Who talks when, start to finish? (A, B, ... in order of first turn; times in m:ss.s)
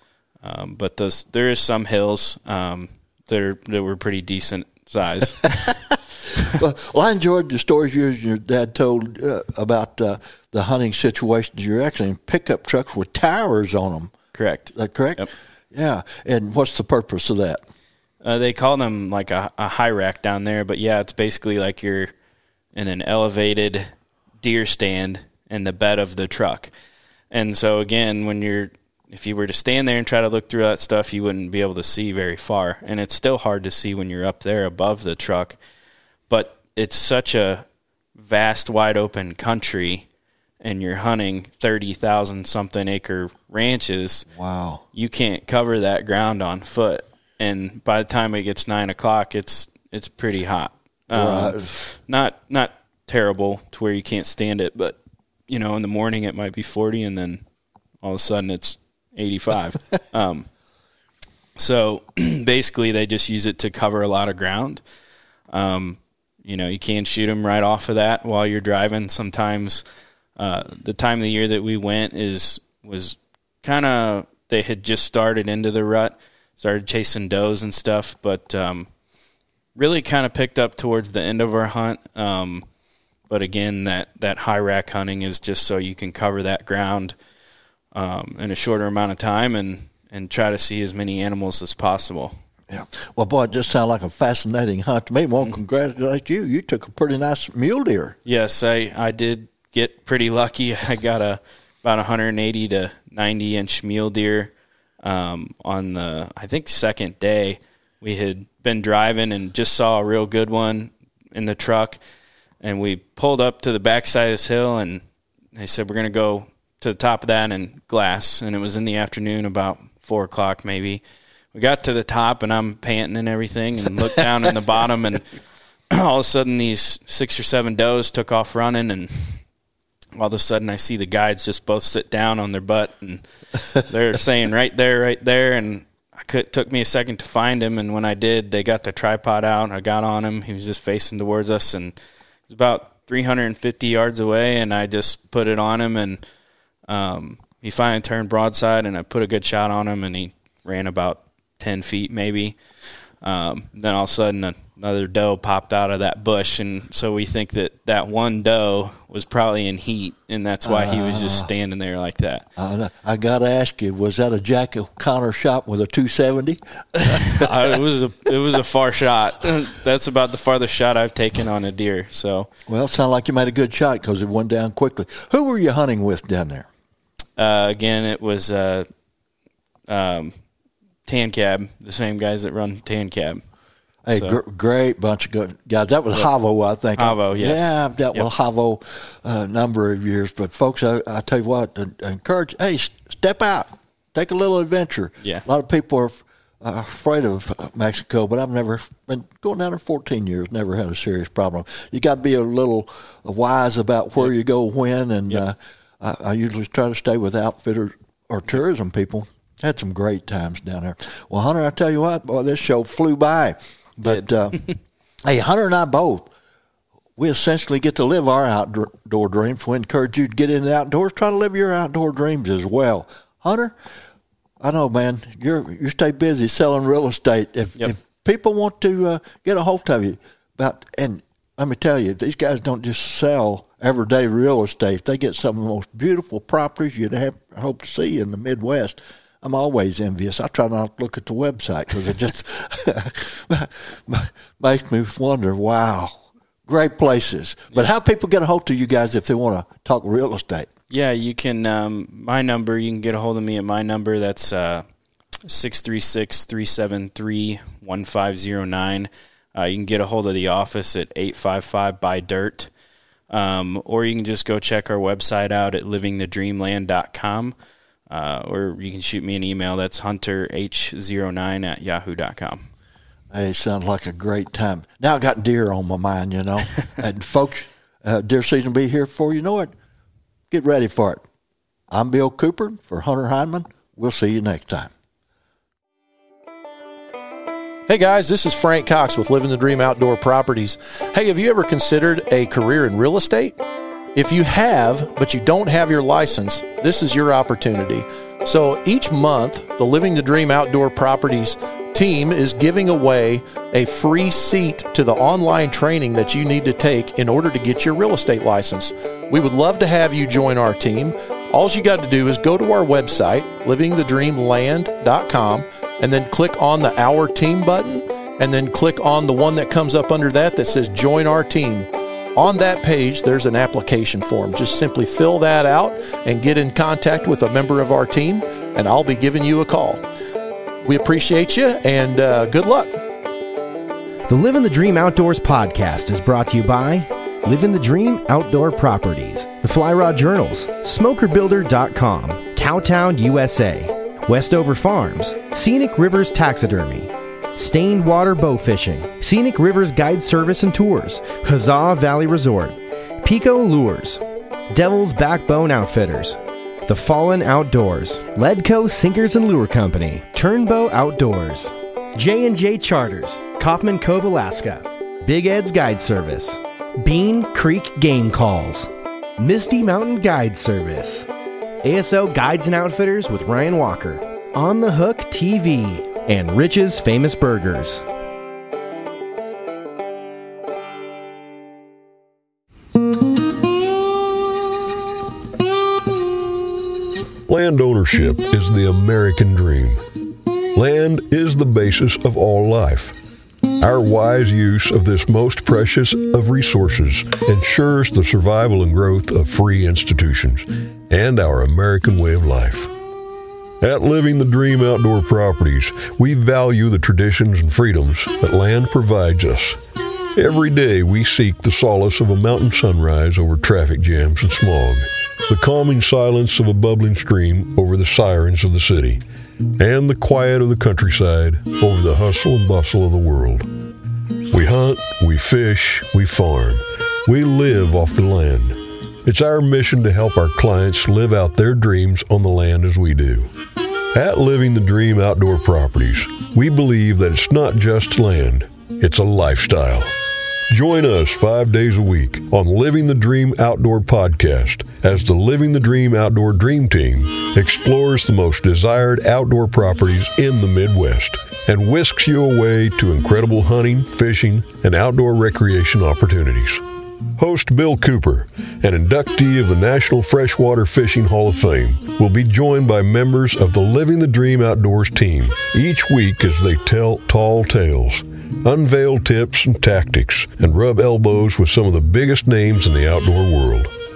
0:00.4-0:05.7 A
0:05.6-0:06.0 B
0:06.5-0:14.1 B
0:14.3-0:15.3 A
0:14.7-0:17.6 B
0:18.2-0:22.1 A
0:22.7-0:23.9 A
0:24.4-0:26.7 A
0:27.3-0:35.6 A
0:36.3-0:40.0 A
0:40.6-0:44.3 A
0:44.3-0:44.8 B
0:44.9-0:55.0 A
0:51.1-0:51.8 B
0:55.5-0:57.4 A
0:58.0-1:00.5 A
1:01.6-1:04.8 A
1:05.5-1:09.8 A
1:10.4-1:18.9 A
1:19.8-1:22.6 A
1:23.3-1:27.2 A
1:27.9-1:32.4 A
1:32.7-1:38.2 B
1:38.2-1:52.0 A
1:52.6-1:55.0 A
1:55.5-2:01.0 A
2:01.5-2:05.3 A
2:05.9-2:09.4 A
2:10.2-2:21.9 A
2:22.5-2:26.2 A
2:26.9-2:32.6 A
2:33.2-2:42.4 A
2:40.6-2:41.5 B
2:42.6-2:47.8 B
2:47.0-2:52.5 A
2:52.7-2:56.7 B
2:57.4-2:58.9 A
2:59.9-3:00.3 A
3:01.0-3:03.4 A
3:04.0-3:34.6 B
3:04.1-3:04.4 A
3:07.0-3:08.3 A
3:35.2-3:36.3 B
3:37.2-3:43.7 B
3:44.6-4:10.7 B
4:10.9-4:14.8 A
4:15.4-4:22.7 A
4:23.3-4:27.6 A
4:28.1-4:32.6 A
4:33.3-4:39.7 B
4:40.5-4:41.2 B
4:41.9-4:44.9 B
4:47.9-4:53.6 C
4:54.1-5:30.0 C
5:30.8-5:33.0 C
5:34.3-5:54.2 D
5:54.7-6:11.3 D
6:11.8-6:18.0 D
6:27.5-6:30.0 E
6:30.7-6:33.2 E
6:33.8-6:42.9 E
6:43.8-6:49.8 E
6:50.3-6:59.2 E
6:59.8-7:03.7 E
7:04.5-7:13.5 E
7:14.1-7:20.1 E
7:20.7-7:36.8 E
7:37.4-7:53.9 E